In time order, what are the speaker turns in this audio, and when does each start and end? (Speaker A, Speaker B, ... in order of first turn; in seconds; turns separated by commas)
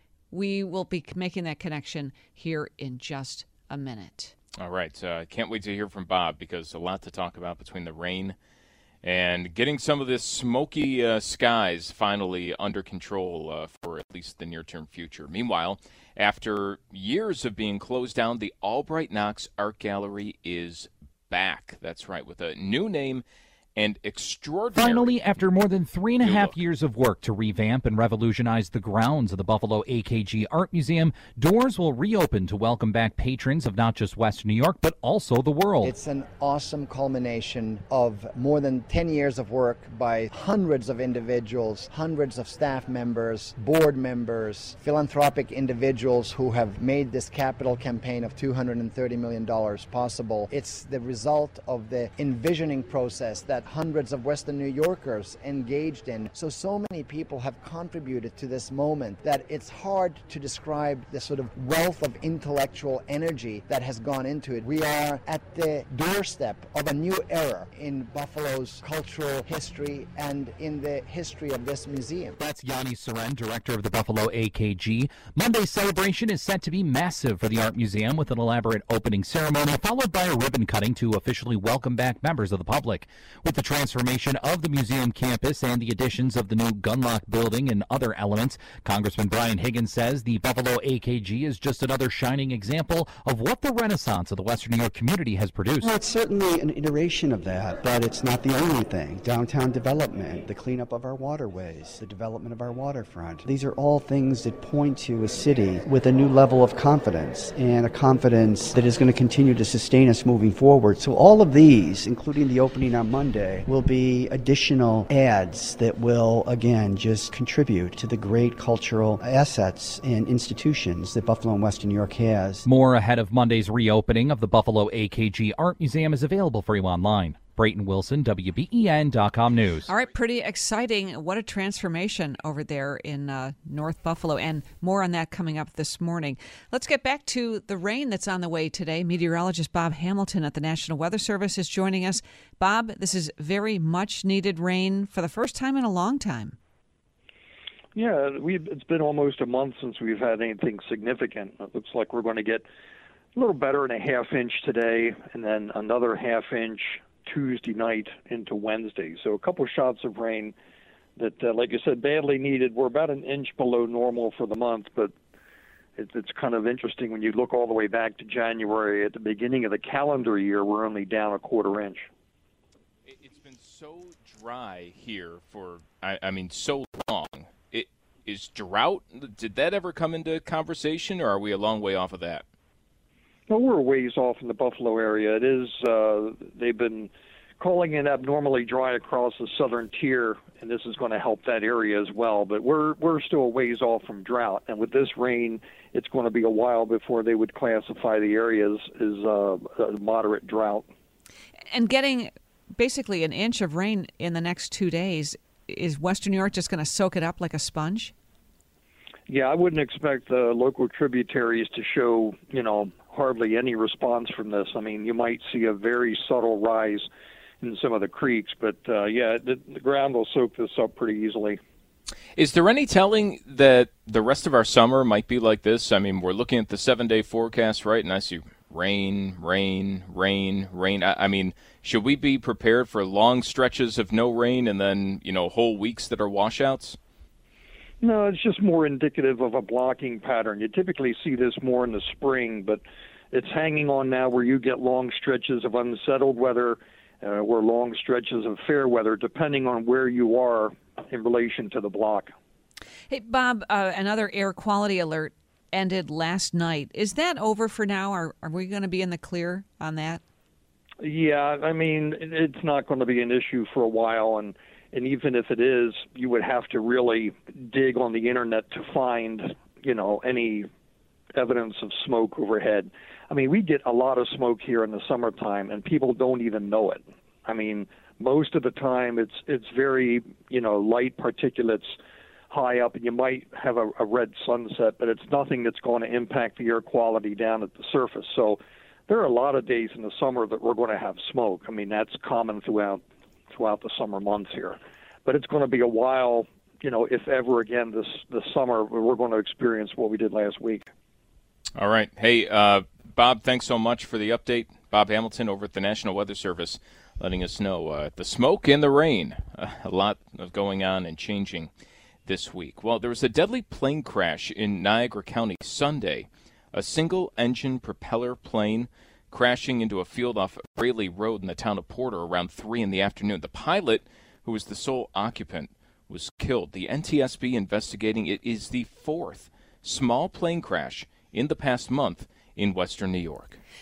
Speaker A: 0.3-4.3, Speaker B: 4.6-8.4, Speaker B: 9.0-23.2, Speaker B: 23.8-25.3, Speaker C: 24.7-35.9, Speaker B: 26.2-26.6, Speaker D: 35.8-72.4, Speaker C: 72.4-96.0, Speaker E: 95.9-122.6, Speaker C: 122.6-129.9, Speaker A: 129.9-146.6, Speaker F: 147.9-152.6, Speaker F: 153.3-160.5, Speaker F: 161.2-165.1, Speaker F: 165.9-172.1, Speaker B: 173.1-182.4, Speaker F: 183.5-200.9, Speaker A: 201.7-208.1, Speaker F: 209.3-217.1, Speaker F: 217.6-221.6, Speaker B: 222.3-237.0, Speaker F: 238.0-252.3, Speaker A: 253.1-260.2, Speaker F: 261.0-270.7, Speaker F: 271.3-281.9, Speaker F: 282.5-300.9, Speaker B: 301.8-311.7, Speaker B: 312.2-333.6